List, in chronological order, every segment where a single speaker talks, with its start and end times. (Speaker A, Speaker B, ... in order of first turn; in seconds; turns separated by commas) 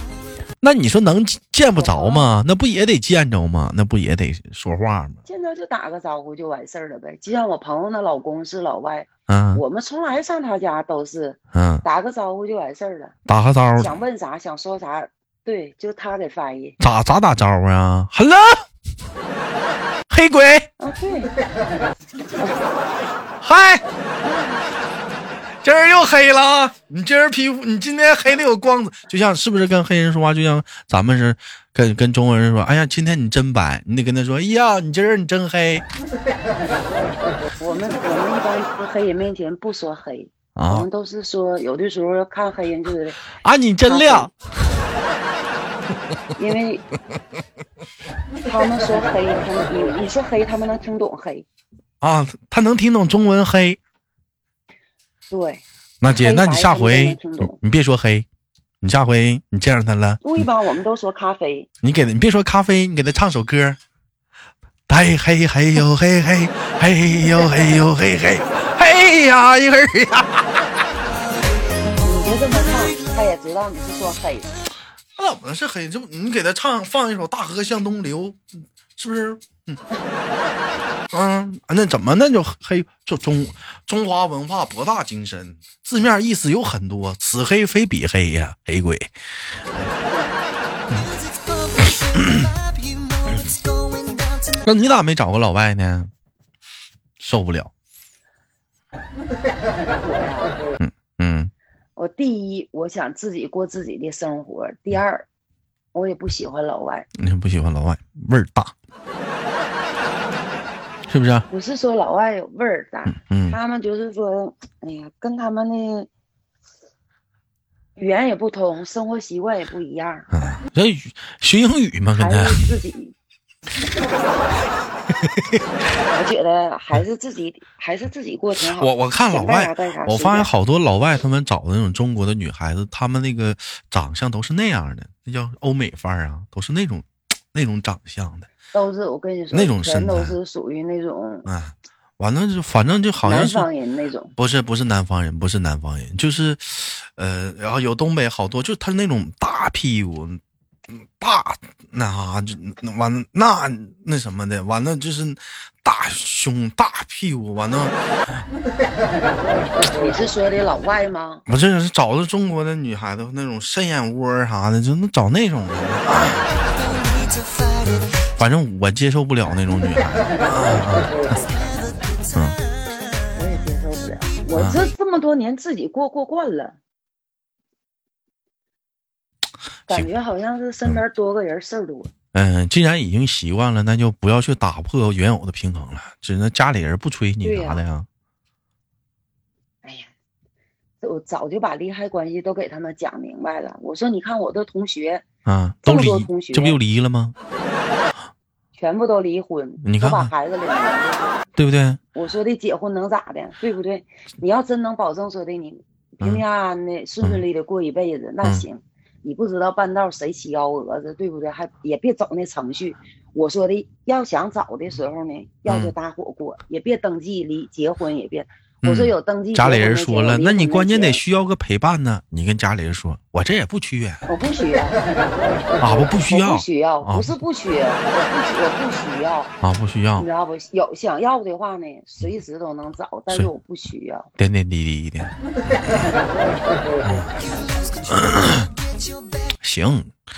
Speaker A: 0.6-5.2, Speaker B: 1.8-2.3, Speaker B: 5.2-13.2, Speaker A: 9.3-9.6, Speaker A: 11.5-11.8, Speaker A: 13.3-14.0, Speaker B: 13.8-16.8, Speaker A: 16.8-18.7, Speaker A: 20.1-20.7, Speaker B: 20.8-21.3, Speaker A: 23.4-23.8, Speaker B: 24.2-24.6, Speaker A: 25.6-35.9, Speaker B: 37.6-43.2, Speaker A: 40.6-40.9, Speaker A: 43.4-44.4, Speaker B: 43.9-44.3, Speaker B: 46.4-46.9, Speaker B: 48.5-51.5, Speaker A: 52.0-53.8, Speaker B: 55.3-55.6, Speaker A: 56.0-58.3, Speaker B: 56.2-57.6, Speaker A: 58.8-60.5, Speaker B: 60.2-61.7, Speaker A: 61.8-63.8, Speaker A: 64.9-70.7, Speaker B: 72.0-74.5, Speaker A: 75.2-78.4, Speaker A: 79.0-79.8, Speaker A: 81.1-89.1, Speaker B: 90.1-90.3, Speaker A: 92.0-92.5, Speaker A: 94.5-96.1, Speaker A: 97.2-97.7, Speaker B: 100.0-100.6, Speaker A: 100.8-101.5, Speaker B: 102.0-105.3, Speaker B: 105.9-107.1, Speaker A: 107.2-108.7, Speaker A: 111.1-111.5, Speaker B: 111.5-116.1, Speaker A: 113.2-113.6, Speaker B: 118.0-120.3, Speaker A: 120.3-122.7, Speaker B: 122.2-123.2, Speaker A: 125.2-125.6, Speaker B: 126.1-130.5, Speaker A: 128.6-138.5, Speaker B: 138.7-141.5, Speaker A: 139.5-140.4, Speaker A: 141.5-143.7, Speaker B: 143.2-144.3, Speaker A: 144.4-158.5, Speaker B: 159.8-161.4, Speaker A: 161.5-166.9, Speaker A: 167.9-171.6, Speaker A: 172.3-172.6, Speaker B: 173.3-176.8, Speaker A: 174.6-174.8, Speaker B: 179.9-182.1, Speaker A: 182.3-188.1, Speaker B: 187.4-187.8, Speaker B: 189.8-190.1, Speaker B: 191.0-195.2, Speaker A: 195.5-197.3, Speaker B: 195.8-196.8, Speaker B: 198.8-201.5, Speaker A: 199.8-200.3, Speaker A: 201.6-202.0, Speaker B: 202.1-221.2, Speaker A: 215.7-215.9, Speaker A: 218.8-224.2, Speaker B: 224.3-225.0, Speaker A: 225.8-227.3, Speaker B: 225.9-229.5, Speaker A: 229.6-230.3, Speaker B: 230.2-234.3, Speaker A: 234.4-236.1, Speaker A: 237.0-237.4, Speaker A: 238.1-238.7, Speaker A: 239.6-240.1